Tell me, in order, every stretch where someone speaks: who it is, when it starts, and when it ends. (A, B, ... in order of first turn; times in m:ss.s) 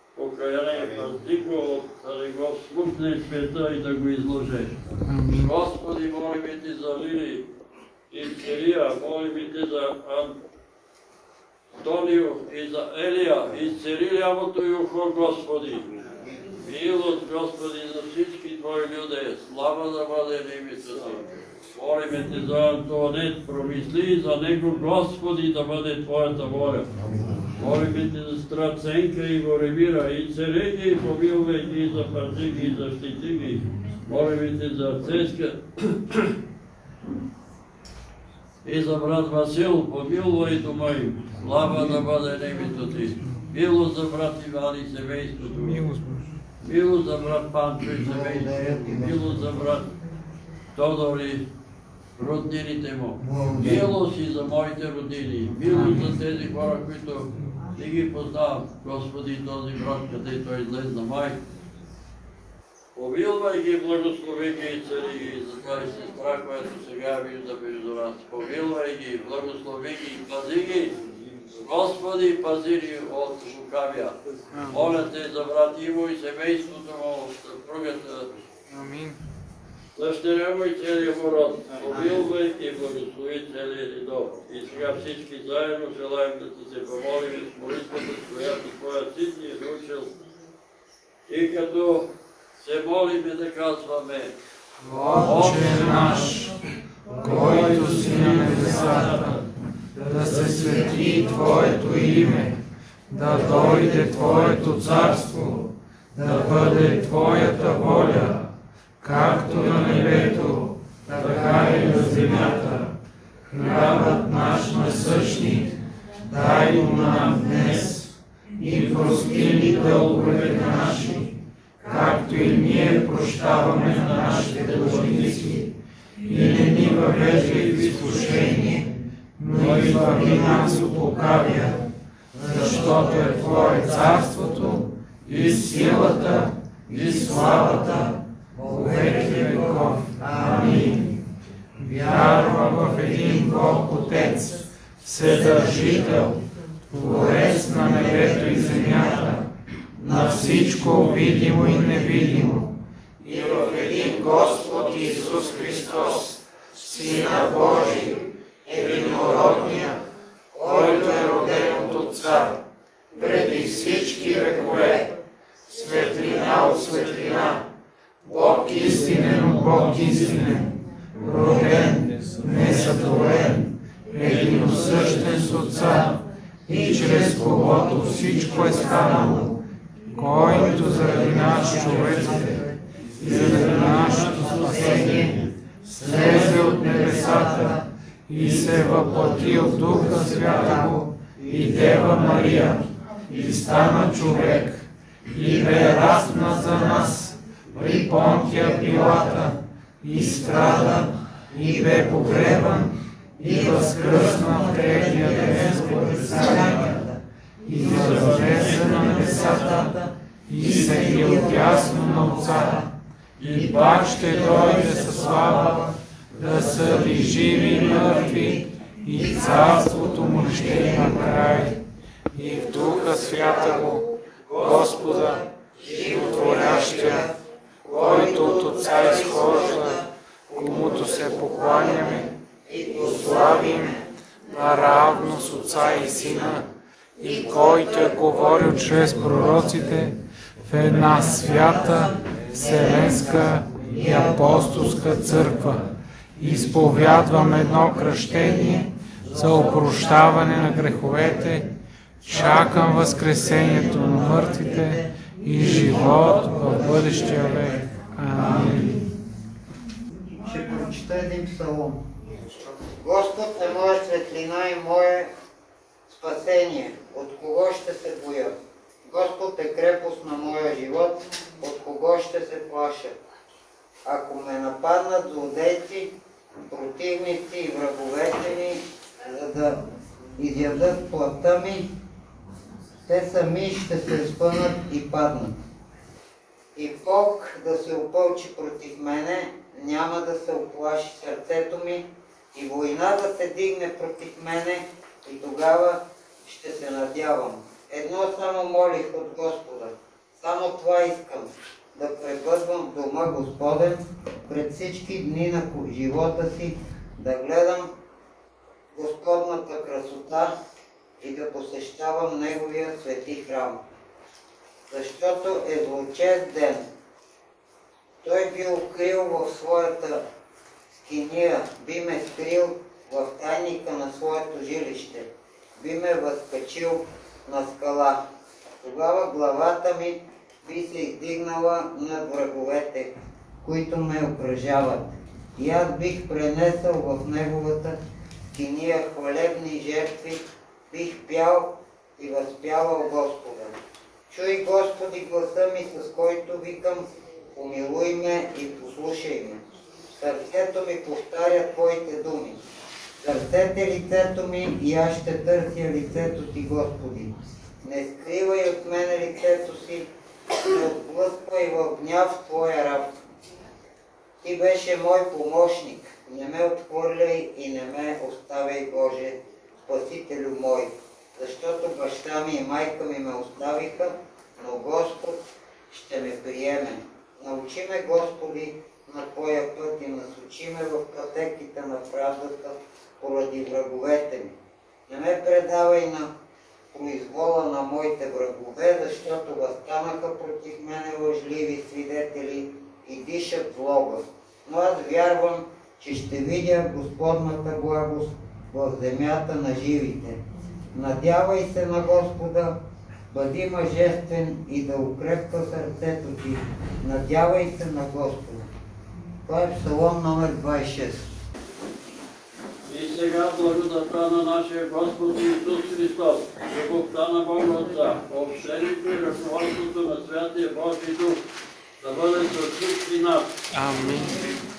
0:00.2-0:07.5 A
0:05.1-0:05.5 B
0:08.1-0:10.4 A
0:11.8-0:15.9 A
0:16.6-0:26.9 A
0:27.6-0:36.3 A
0:38.6-0:45.9 A
0:45.6-0:46.3 B
0:46.6-0:49.9 A
0:48.1-0:49.4 C
0:50.8-0:51.5 A
0:52.2-1:01.4 A
0:53.2-0:53.8 C
0:55.7-0:56.1 B
1:03.0-1:11.0 A
1:11.6-1:14.2 A
1:14.7-1:18.3 A
1:18.7-1:19.2 B
1:20.0-1:30.1 A
1:31.3-1:34.3 A
1:34.8-1:36.5 B
1:35.2-1:36.1 A
1:37.2-1:39.4 A
1:37.2-1:39.4 B
1:40.0-1:42.6 B
1:43.1-1:48.4 B
1:49.0-1:52.9 B
1:53.5-1:55.7 B
1:56.2-1:58.1 B
1:58.6-2:01.3 B
2:01.8-2:05.7 B
2:06.2-2:11.8 B
2:09.6-2:10.5 A
2:12.4-2:18.1 B
2:15.3-2:15.6 A
2:18.7-2:21.2 B
2:21.8-2:26.4 B
2:26.9-2:29.5 B
2:30.0-2:32.7 B
2:33.2-2:40.0 B
2:40.6-2:41.4 C
2:40.6-2:42.6 B
2:43.2-2:45.1 B
2:45.7-2:47.6 B
2:48.3-2:59.5 B
3:00.2-3:02.6 B
3:03.2-3:05.3 B
3:03.6-3:05.4 A
3:06.0-3:27.0 B
3:26.3-3:27.1 C
3:27.6-3:29.9 B
3:27.8-3:29.7 A
3:30.5-3:32.9 B
3:30.6-3:31.4 C
3:33.4-3:34.5 A
3:33.6-3:41.8 B
3:42.3-3:47.3 B
3:47.9-3:52.3 B
3:53.0-3:54.0 B
3:54.5-3:56.6 B
3:57.2-4:11.7 B
4:12.2-4:19.0 B
4:20.4-4:22.0 C
4:22.8-4:25.3 C
4:26.1-4:28.6 C
4:29.1-4:33.1 C
4:34.0-4:36.1 C
4:36.6-4:39.8 C
4:40.4-4:41.9 C
4:43.1-4:45.6 C
4:46.8-5:07.9 C
5:08.9-5:10.5 C
5:11.2-5:13.8 C
5:14.9-5:16.8 C
5:18.2-5:20.2 C
5:21.0-5:28.2 C
5:28.8-5:38.0 C
5:38.5-5:43.7 C
5:44.3-5:49.6 C
5:50.2-5:52.6 C
5:53.2-6:00.1 C
6:00.6-6:03.1 C
6:04.4-6:24.6 C
6:25.1-6:26.3 C
6:26.9-6:40.4 C
6:40.9-6:42.8 C
6:43.3-6:48.7 C
6:49.4-6:51.2 C
6:52.9-7:01.4 A
7:02.0-7:03.5 A
7:03.7-7:04.5 B